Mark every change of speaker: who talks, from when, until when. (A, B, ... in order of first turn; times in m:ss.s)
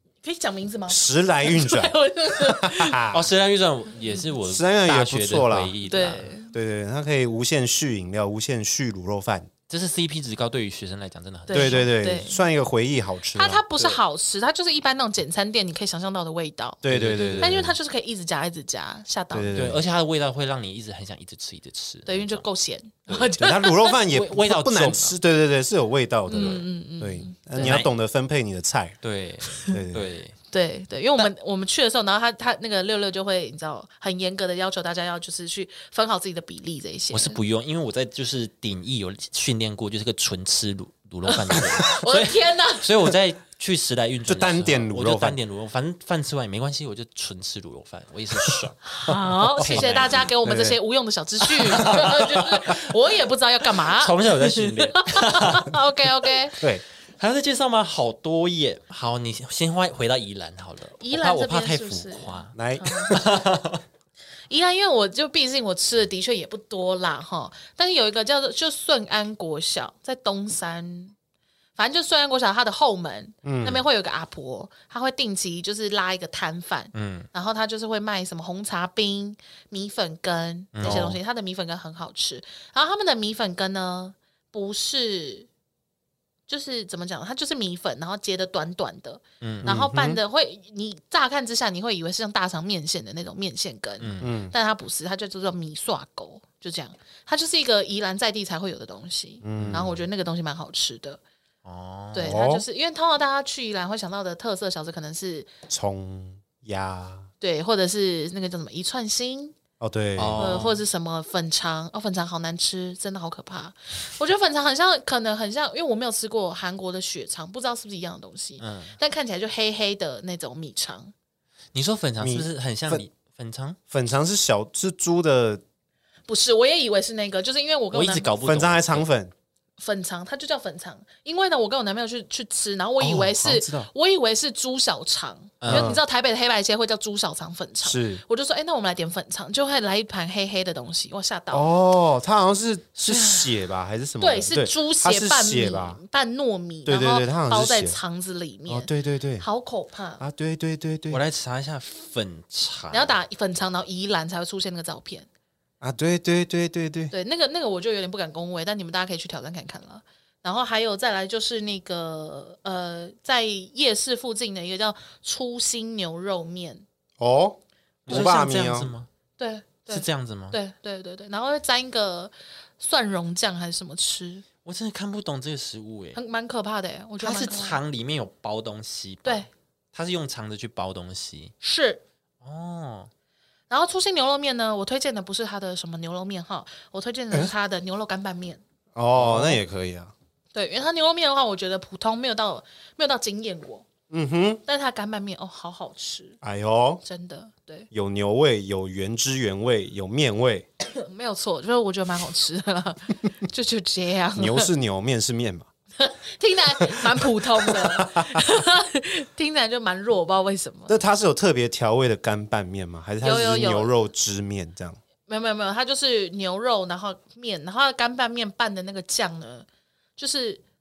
0:00.2-0:03.0 A
0:00.9-0:03.3 B
0:03.1-0:06.3 C
0:04.4-0:05.7 B
0:05.9-0:06.5 A
0:06.5-0:09.5 B
0:09.7-0:11.8 C
0:11.5-0:12.4 A
0:11.5-0:13.6 B
0:13.3-0:16.8 A
0:16.8-0:17.8 B
0:16.9-0:17.6 C
0:17.4-0:19.6 A
0:19.3-0:19.8 B
0:19.5-0:22.4 C
0:22.0-0:24.2 A
0:23.1-0:23.3 C
0:23.4-0:29.0 B
0:24.1-0:25.2 C
0:26.3-0:27.8 A
0:27.6-0:27.9 C
0:29.0-0:30.4 C
0:29.7-0:30.0 B
0:30.5-0:37.4 A
0:37.1-0:48.8 C
0:41.3-0:43.1 A
0:44.3-0:45.4 B
0:48.8-0:56.6 A
0:49.1-0:50.8 B
0:49.5-0:50.3 C
0:51.7-0:52.5 C
0:51.8-0:52.7 B
0:53.8-0:55.8 C
0:57.2-1:03.8 C
1:01.0-1:03.3 A
1:02.5-1:03.4 B
1:04.5-1:11.1 A
1:11.8-1:25.5 A
1:13.4-1:13.8 B
1:16.9-1:17.3 C
1:20.7-1:21.2 C
1:20.8-1:21.2 B
1:26.5-1:41.2 A
1:29.4-1:29.7 C
1:29.6-1:30.2 B
1:34.0-1:34.4 C
1:34.2-1:34.5 B
1:39.4-1:40.0 B
1:39.5-1:39.8 C
1:41.6-1:42.3 C
1:42.1-1:45.5 A
1:42.2-1:42.6 B
1:45.7-1:47.3 B
1:47.4-1:49.5 A
1:49.8-1:50.6 B
1:50.2-1:50.8 C
1:50.4-2:01.1 A
1:58.6-1:59.0 C
2:01.7-2:03.8 C
2:02.2-2:03.0 B
2:03.9-2:05.6 B
2:06.3-2:08.3 A
2:07.9-2:09.0 C
2:08.4-2:09.3 B
2:09.8-2:21.7 A
2:13.0-2:13.9 B
2:15.6-2:16.0 C
2:15.7-2:16.0 B
2:17.8-2:18.2 B
2:21.5-2:26.0 B
2:23.0-2:23.6 C
2:24.2-2:30.2 A
2:26.8-2:28.0 B
2:28.7-2:29.4 B
2:30.2-2:31.2 B
2:31.1-2:33.2 C
2:32.9-2:35.3 A
2:35.8-2:37.1 B
2:37.1-2:46.8 A
2:47.2-2:48.9 B
2:48.0-2:49.1 C
2:49.4-2:54.4 A
2:49.9-2:50.6 C
2:54.6-2:56.2 C
2:56.1-2:57.8 A
2:57.2-3:01.5 C
3:01.6-3:02.0 A
3:02.4-3:03.1 C
3:03.7-3:08.6 A
3:08.9-3:10.1 B
3:09.1-3:09.6 C
3:10.5-3:13.8 A
3:14.1-3:14.6 B
3:14.6-3:16.4 A
3:16.4-3:17.0 B
3:17.0-3:17.9 A
3:17.9-3:20.7 B
3:20.9-3:24.7 A
3:24.4-3:25.7 B
3:26.0-3:31.0 A
3:26.8-3:28.4 B
3:30.9-3:35.0 B
3:33.2-3:33.9 A
3:35.3-3:39.6 A
3:40.2-3:40.6 A